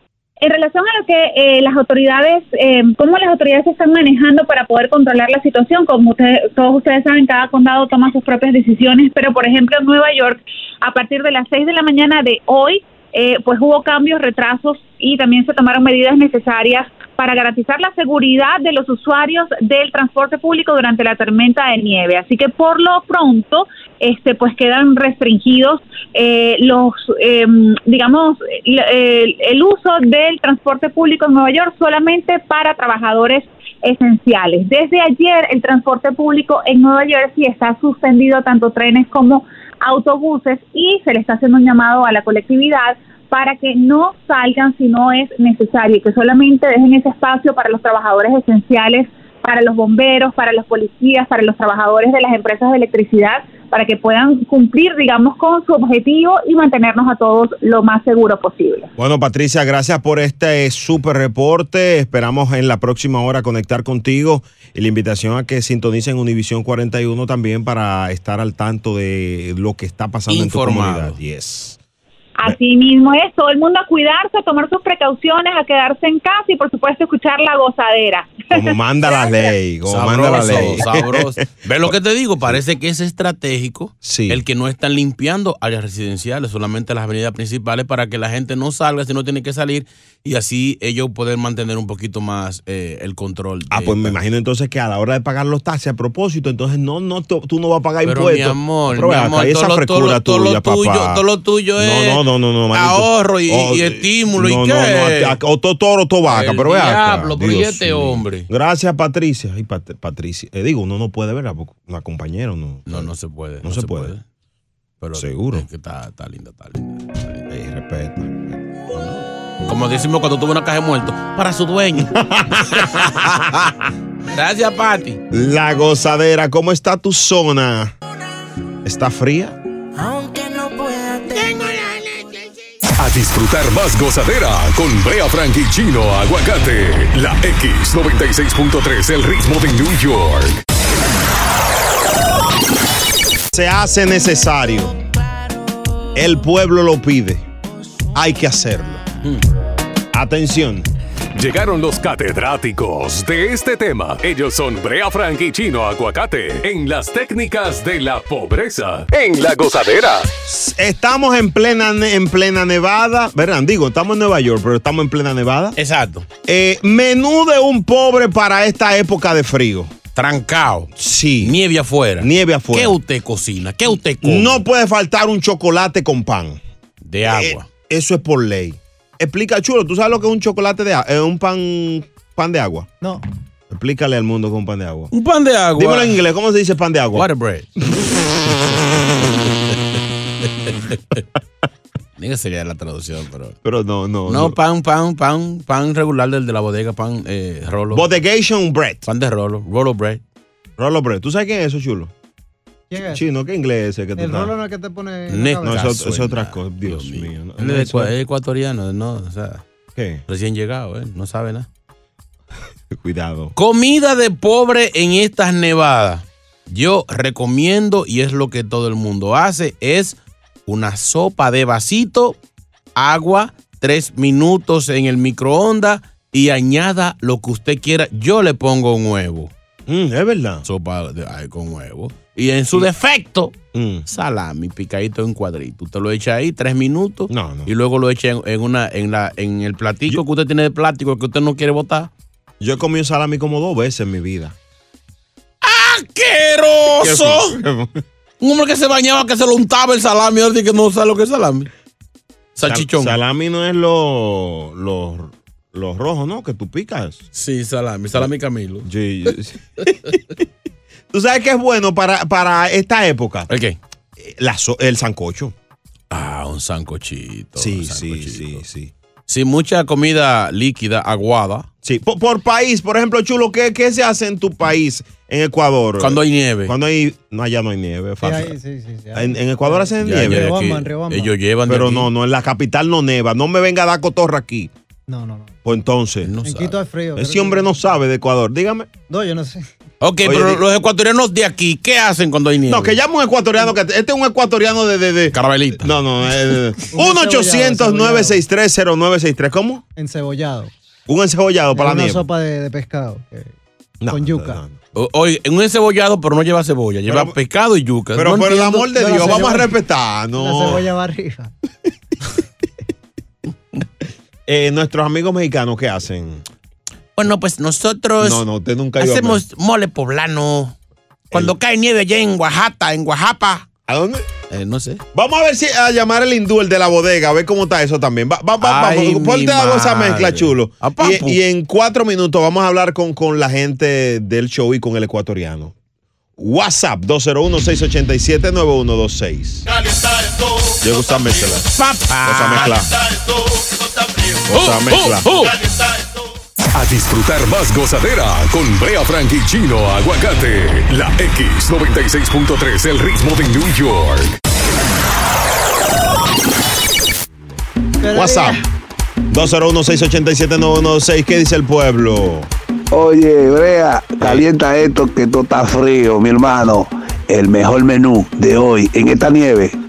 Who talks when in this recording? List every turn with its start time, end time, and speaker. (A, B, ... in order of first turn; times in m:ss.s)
0:00.4-0:58.9 A
0:59.0-1:11.8 B
1:10.3-1:11.2 C
1:12.4-1:19.5 A
1:18.5-1:21.4 B
1:19.9-1:34.2 C
1:24.0-1:24.4 B
1:33.7-1:41.2 B
1:38.0-1:45.4 C
1:41.8-1:53.1 B
1:46.3-1:48.5 C
1:52.9-1:54.2 C
1:53.6-1:54.1 B
1:55.0-1:57.4 C
1:55.1-1:55.7 B
1:57.5-1:58.6 B
1:58.9-2:02.1 C
2:02.0-2:03.7 B
2:02.8-2:03.6 C
2:04.3-2:05.2 C
2:05.3-2:07.9 B
2:08.8-2:09.6 B
2:11.4-2:11.9 C
2:13.0-2:20.6 D
2:23.5-2:24.9 B
2:26.1-2:27.4 B
2:28.1-2:29.0 B
2:30.1-2:30.9 B
2:31.4-2:40.3 D
2:40.4-2:45.8 B
2:45.8-2:46.2 C
2:46.4-2:49.9 B
2:50.1-2:50.9 C
2:51.0-2:51.6 B
2:51.4-2:54.6 C
2:52.2-2:53.0 B
2:54.2-2:56.6 B
2:57.0-2:57.7 C
2:57.3-3:02.9 B
3:03.7-3:05.1 B
3:05.1-3:06.2 C
3:05.8-3:07.3 B
3:07.1-3:07.7 C
3:08.5-3:11.2 C
3:12.2-3:13.6 C
3:13.6-3:14.6 B
3:14.3-3:18.0 C
3:17.9-3:19.0 B
3:19.1-3:20.2 C
3:20.8-3:22.1 B
3:22.9-3:23.3 E
3:23.1-3:24.5 B
3:24.2-3:26.0 E
3:25.3-3:29.6 C
3:25.6-3:28.1 B
3:30.0-3:30.2 B
3:30.3-3:31.7 C
3:32.9-3:33.5 B
3:33.6-3:42.4 C
3:43.0-3:49.5 C
3:49.9-3:50.6 B
3:50.6-3:53.5 C
3:53.7-3:54.0 B
3:54.1-4:02.1 C
3:57.3-3:57.7 B
4:02.6-4:04.5 B
4:05.6-4:07.6 C
4:07.0-4:08.0 B
4:08.4-4:11.7 C
4:12.6-4:13.2 C
4:12.6-4:17.2 B
4:17.3-4:18.8 C
4:18.8-4:20.2 B
4:21.1-4:23.5 B
4:23.5-4:23.8 C
4:24.2-4:25.5 B
4:26.1-4:28.6 C
4:27.6-4:28.9 B
4:29.3-4:31.7 C
4:31.8-4:38.6 B
4:36.0-4:36.7 C
4:38.2-4:41.3 E
4:39.1-4:40.6 B
4:40.0-4:42.1 C
4:41.6-4:44.7 B
4:45.1-4:45.6 E
4:45.6-4:46.3 B
4:46.2-4:46.8 C
4:46.4-4:47.9 E
4:47.1-4:48.9 B
4:49.1-4:49.7 E
4:50.0-4:53.0 C
4:50.2-4:50.6 B
4:52.7-4:59.8 B
4:55.3-4:55.9 C
4:56.9-4:58.4 E
5:00.0-5:00.7 E
5:01.1-5:02.2 B
5:01.7-5:03.5 E
5:04.0-5:04.7 B
5:04.1-5:04.6 E
5:04.9-5:09.5 C
5:07.1-5:07.4 B
5:08.1-5:10.9 B
5:09.0-5:09.7 E
5:10.4-5:11.5 E
5:14.5-5:16.4 B
5:17.2-5:18.4 C
5:18.2-5:19.4 B
5:19.0-5:20.7 C
5:21.3-5:23.7 C
5:23.9-5:24.3 B
5:24.5-5:25.0 C
5:25.1-5:35.7 B
5:28.6-5:31.4 C
5:36.4-5:39.7 B
5:40.8-5:42.9 B
5:41.8-5:42.9 C
5:44.5-5:45.3 B
5:44.5-5:45.6 C
5:46.7-5:54.4 D
5:58.0-5:58.6 E
5:58.1-5:58.6 B
5:59.3-6:02.5 B
6:02.9-6:09.7 F